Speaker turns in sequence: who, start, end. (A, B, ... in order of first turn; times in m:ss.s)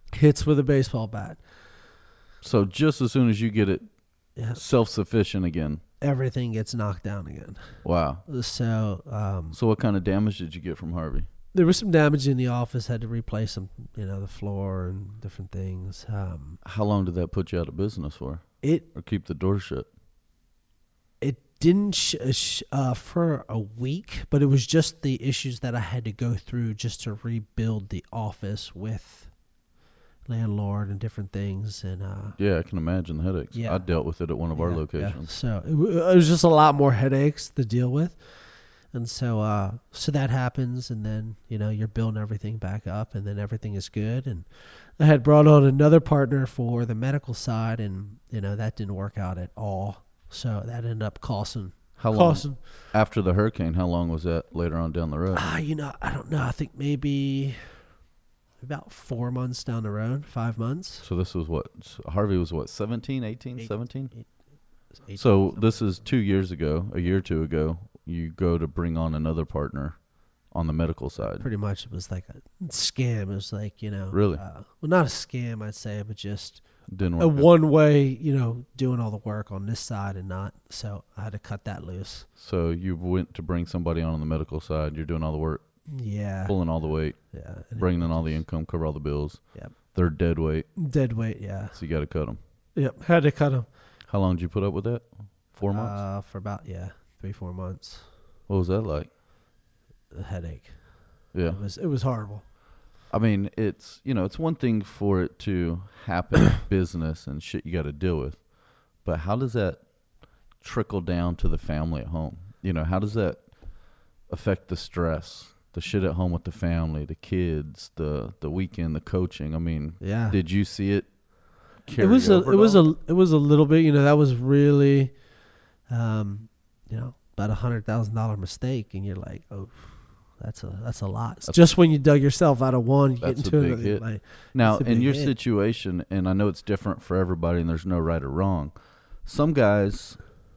0:00.1-0:01.4 A
0:02.4-0:03.8 B
0:04.4-0:04.6 A
0:04.5-0:05.8 B
0:06.0-0:09.6 A
0:07.8-0:08.2 B
0:09.5-0:11.3 B
0:11.5-0:16.6 A
0:16.6-0:19.9 B
0:21.2-0:29.3 A
0:30.3-0:32.4 A
0:32.4-0:35.3 B
0:33.5-0:33.9 A
0:34.5-0:38.2 A
0:38.9-0:52.6 A
0:52.0-0:55.4 B
0:55.3-0:57.7 A
0:58.6-1:01.0 A
1:01.0-1:04.1 B
1:03.6-1:04.3 A
1:04.9-1:06.0 A
1:05.2-1:11.5 B
1:11.3-1:16.6 A
1:14.1-1:14.4 B
1:16.9-1:17.5 B
1:17.2-1:22.3 A
1:22.4-1:25.6 B
1:25.9-1:26.6 A
1:26.5-1:30.7 B
1:27.3-1:28.4 A
1:30.8-1:31.8 A
1:31.7-1:32.4 B
1:32.8-1:33.7 A
1:34.1-1:36.0 B
1:35.7-1:38.0 A
1:38.5-1:39.1 B
1:40.1-1:40.8 A
1:41.3-1:41.6 B
1:41.5-1:42.4 A
1:43.1-1:48.4 B
1:49.0-1:49.8 B
1:50.6-1:53.4 B
1:54.3-2:01.1 B
2:00.0-2:00.4 A
2:01.8-2:02.8 B
2:02.0-2:05.1 A
2:05.9-2:15.3 A
2:13.2-2:18.7 B
2:19.2-2:20.2 B